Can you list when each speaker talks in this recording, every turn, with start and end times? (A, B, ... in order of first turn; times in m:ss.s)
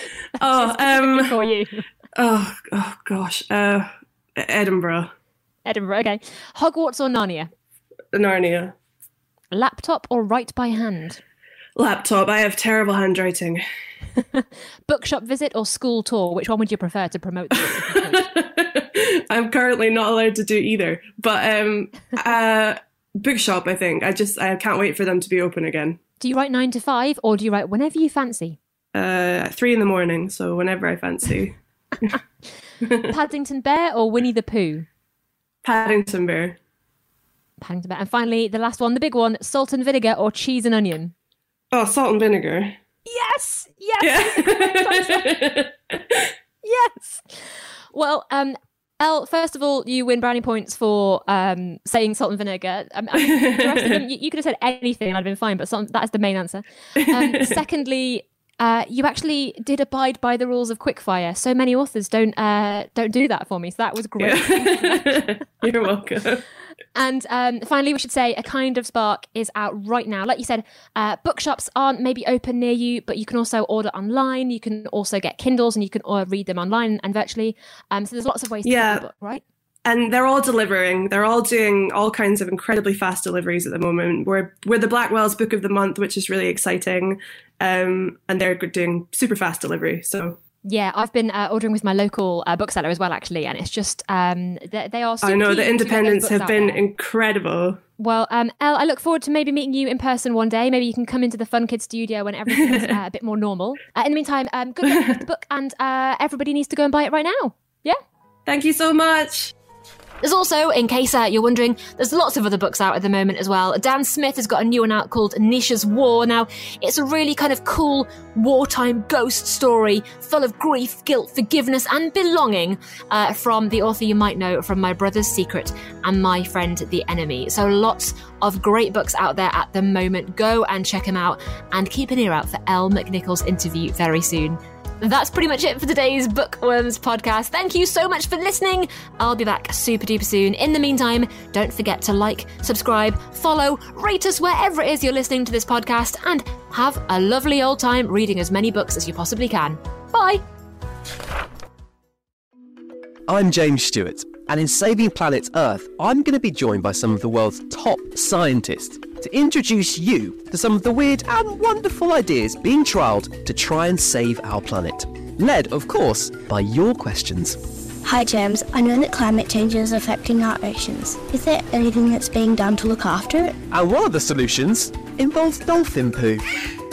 0:00.4-0:01.4 A
0:00.4-0:01.8 B
0:02.2-0:05.1 A
0:05.7-0:07.5 B
0:08.1-0:08.7 A
0:09.5-0:11.2 B
0:11.8-0:13.6 A
0:14.3-0:18.3 B
0:18.2-0:26.0 A
0:26.2-0:28.6 B
0:28.9-0:31.5 A
0:33.0-0:34.9 B
0:35.6-0:36.6 A
0:37.6-0:41.1 B
0:41.7-0:42.8 A
0:43.1-0:45.4 B
0:44.0-0:46.3 A
0:46.6-0:47.4 B
0:47.9-1:05.3 B
0:53.4-0:53.6 A
0:57.0-0:57.5 A
1:04.2-1:06.4 A
1:07.0-1:19.4 B
1:18.6-1:19.1 A
1:19.8-1:30.4 A
1:30.6-1:36.8 B
1:35.2-1:37.8 A
1:38.0-1:48.0 B
1:48.5-1:49.5 A
1:50.2-2:30.4 B
2:33.3-2:47.6 C
2:48.0-2:53.5 D
2:53.7-2:56.4 C